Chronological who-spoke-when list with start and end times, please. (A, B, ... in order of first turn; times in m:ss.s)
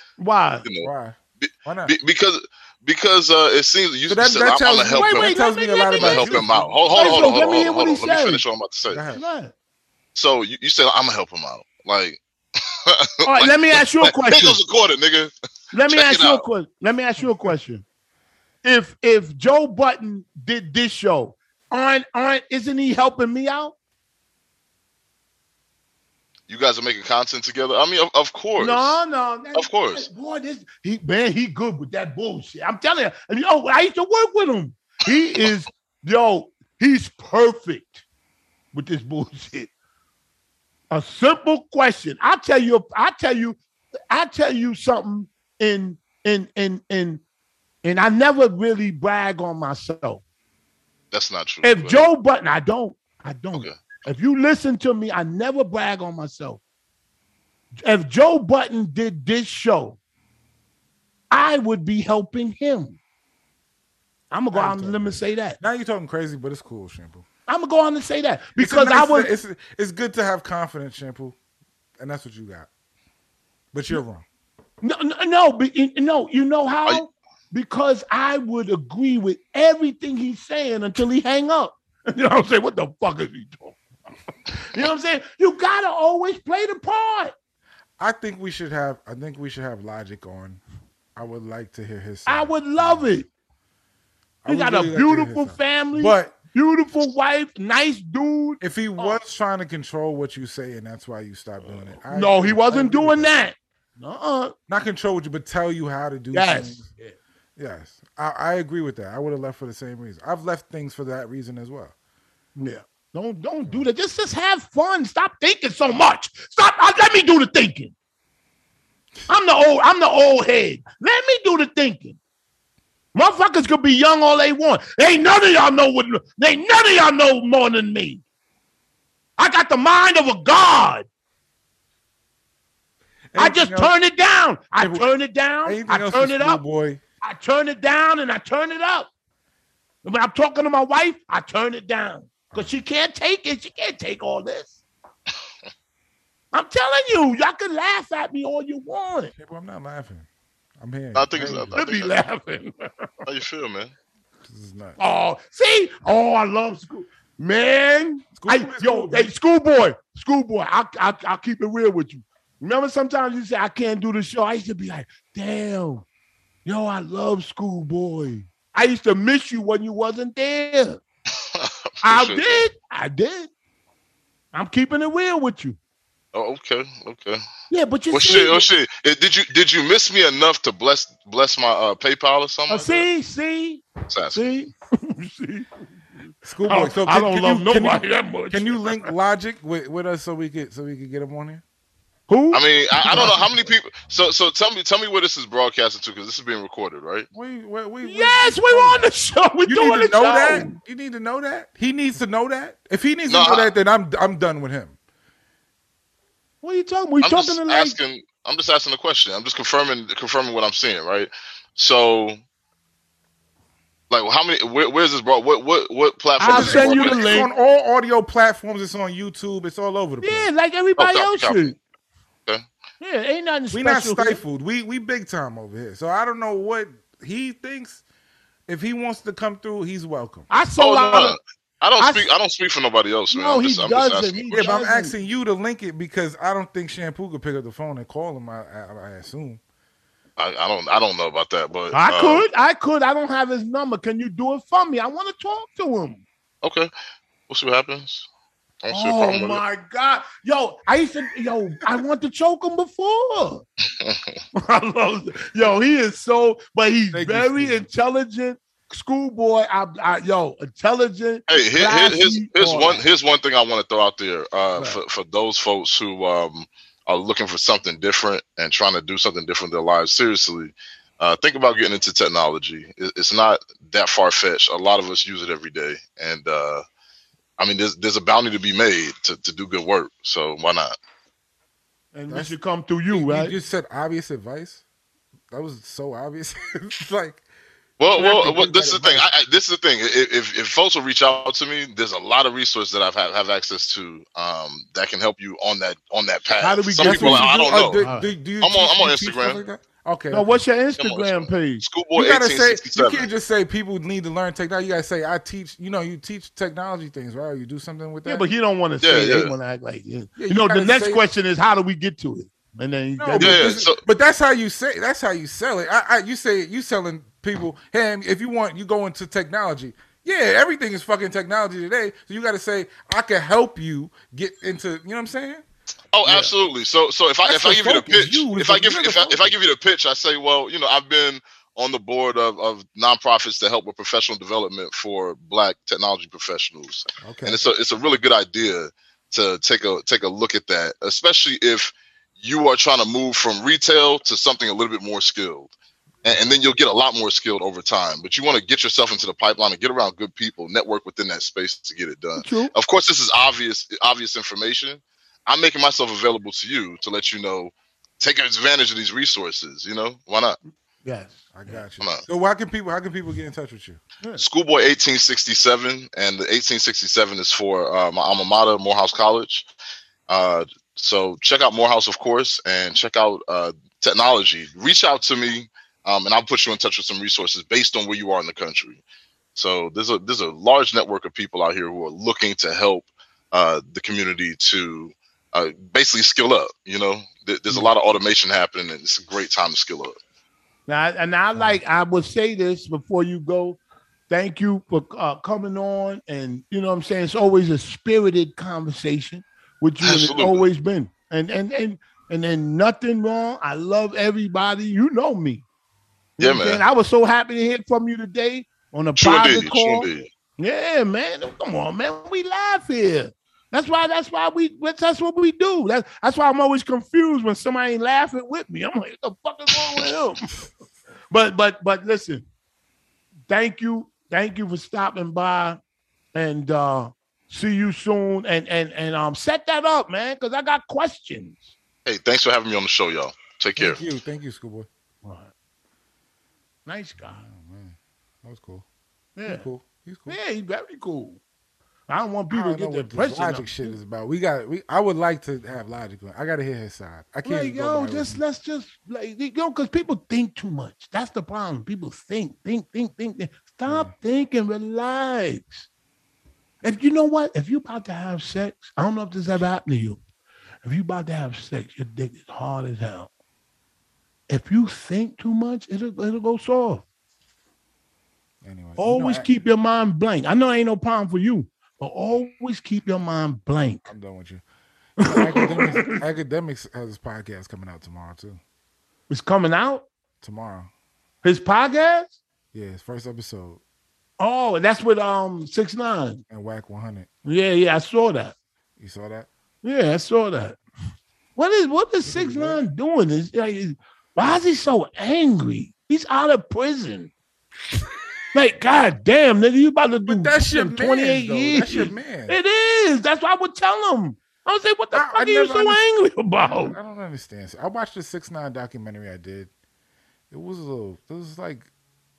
0:00.2-0:00.6 A
0:00.8-0:02.0 B
0:01.4-0:05.4 C
0:04.1-0:07.5 B
0:04.9-0:08.4 A
0:05.9-0:09.0 C
0:08.9-0:09.2 B
0:09.1-0:09.5 A
0:10.2-0:12.2 C
0:12.9-0:15.3 C
0:13.2-0:14.6 A
0:15.7-0:17.8 A
0:15.9-0:16.4 C
0:18.6-0:23.8 A
0:26.5-0:29.0 C
0:28.6-0:38.0 A
0:29.6-0:30.1 C
0:38.7-0:39.7 A
0:40.9-0:43.6 A
0:44.1-0:47.2 A
0:47.8-0:50.2 A
0:51.1-0:52.1 C
0:51.6-0:56.6 A
0:57.8-1:00.0 A
1:01.3-1:03.0 A
1:04.3-1:05.6 A
1:04.5-1:07.2 B
1:07.5-1:09.3 A
1:08.6-1:11.4 B
1:12.0-1:12.7 B
1:13.7-1:14.2 B
1:14.8-1:23.8 A
1:24.6-1:27.3 A
1:28.0-1:30.6 B
1:31.2-1:33.1 B
1:32.3-1:33.3 A
1:34.4-1:36.4 B
1:34.5-1:39.2 A
1:38.6-1:43.4 B
1:42.1-1:44.5 A
1:44.7-1:46.9 B
1:46.3-1:47.2 A
1:47.6-1:51.9 B
1:52.6-1:57.9 A
1:59.3-2:02.2 A
2:03.1-2:08.2 A
2:09.4-2:11.1 A
2:13.3-2:13.9 B
2:13.4-2:16.6 A
2:14.8-2:15.1 B
2:15.6-2:17.0 B
2:17.2-2:19.1 A
2:20.0-2:24.8 A
2:22.5-2:22.8 B
2:26.5-2:29.3 A
2:29.4-2:30.3 B
2:30.8-2:31.8 B
2:31.2-2:32.2 C
2:31.7-2:32.9 A
2:33.3-2:33.9 C
2:34.4-2:35.0 B
2:35.0-2:46.0 A
2:38.4-2:39.3 B
2:46.6-2:51.0 A
2:51.6-2:52.6 C
2:52.0-2:53.5 A
2:54.5-2:55.8 A
2:56.3-2:57.4 C
2:57.7-2:58.6 A
2:58.1-3:03.0 C
3:02.7-3:05.8 A
3:04.1-3:04.4 C
3:06.4-3:11.6 B
3:06.6-3:09.1 A
3:12.3-3:13.4 A
3:12.5-3:17.3 C
3:13.1-3:14.3 B
3:17.3-3:19.1 B
3:18.0-3:20.8 A
3:19.6-3:25.0 B
3:23.3-3:23.7 C
3:26.6-3:28.0 A
3:27.2-3:32.4 C
3:34.1-3:37.4 C
3:36.4-3:37.5 A
3:36.5-3:40.5 B
3:40.2-3:41.8 A
3:41.0-3:41.7 C
3:43.0-3:44.4 A
3:43.7-3:48.0 B
3:48.7-3:50.5 B
3:50.5-3:51.4 A
3:50.8-3:54.8 C
3:52.0-3:52.3 A
3:53.3-3:55.2 A
3:54.5-3:59.6 B
4:00.4-4:02.4 C
4:01.9-4:06.2 A
4:06.6-4:06.9 C
4:07.5-4:08.3 C
4:08.8-4:09.6 C
4:08.9-4:13.6 A
4:14.0-4:14.4 C
4:14.6-4:23.0 A
4:17.1-4:17.9 B
4:21.5-4:36.8 C
4:37.6-4:41.0 C
4:42.1-4:43.6 A
4:42.3-4:42.6 B
4:43.1-4:44.8 B
4:45.5-4:47.4 B
4:48.0-4:58.0 C
4:48.1-4:49.3 B
4:56.6-4:58.3 A
4:57.0-5:00.6 B
4:58.6-4:59.6 C
5:00.3-5:01.8 A
5:01.0-5:03.3 C
5:02.2-5:08.5 B
5:08.3-5:13.8 A
5:09.0-5:09.5 C
5:10.4-5:11.2 B
5:13.2-5:25.6 B
5:13.4-5:14.0 C
5:26.1-5:45.7 C
5:26.3-5:26.5 B
5:27.4-5:29.6 B
5:37.2-5:37.6 B
5:46.2-6:00.6 C
5:46.3-5:46.6 B
5:52.4-5:52.7 A
6:01.0-6:01.8 A
6:01.5-6:04.0 B
6:04.4-6:09.7 C
6:10.3-6:19.0 C
6:19.6-6:30.2 C
6:30.9-6:33.8 A
6:31.5-6:31.8 B
6:34.3-6:45.6 A
6:40.0-6:40.6 C
6:46.4-6:50.1 A
6:46.4-6:46.8 C
6:49.2-6:50.3 C
6:50.6-7:00.6 A
7:01.3-7:02.5 A
7:03.5-7:05.8 A
7:06.3-7:11.7 A
7:12.1-7:14.0 C
7:13.8-7:14.9 B
7:15.2-7:15.5 A
7:16.9-7:17.4 A
7:17.2-7:18.8 B
7:19.4-7:19.7 A
7:19.5-7:20.4 B
7:20.3-7:21.4 A
7:22.1-7:24.0 A
7:22.5-7:28.4 B
7:27.4-7:35.9 A
7:33.9-7:34.1 B
7:36.8-7:40.2 A
7:40.8-7:43.3 A
7:44.5-7:47.0 A
7:48.6-7:49.6 B
7:49.0-7:54.1 A
7:54.1-7:54.6 B
7:55.2-7:58.6 B
7:55.2-7:56.2 A
7:59.3-8:00.0 A
8:00.4-8:00.9 B
8:01.4-8:02.3 A
8:02.7-8:03.8 B
8:04.4-8:06.4 A
8:06.5-8:07.3 B
8:07.4-8:08.5 A
8:09.0-8:09.5 B
8:09.8-8:10.8 A
8:11.6-8:17.3 A
8:12.3-8:12.8 B
8:18.5-8:27.0 A
8:20.3-8:22.6 B
8:25.1-8:26.0 B
8:26.6-8:29.7 B
8:30.5-8:31.9 B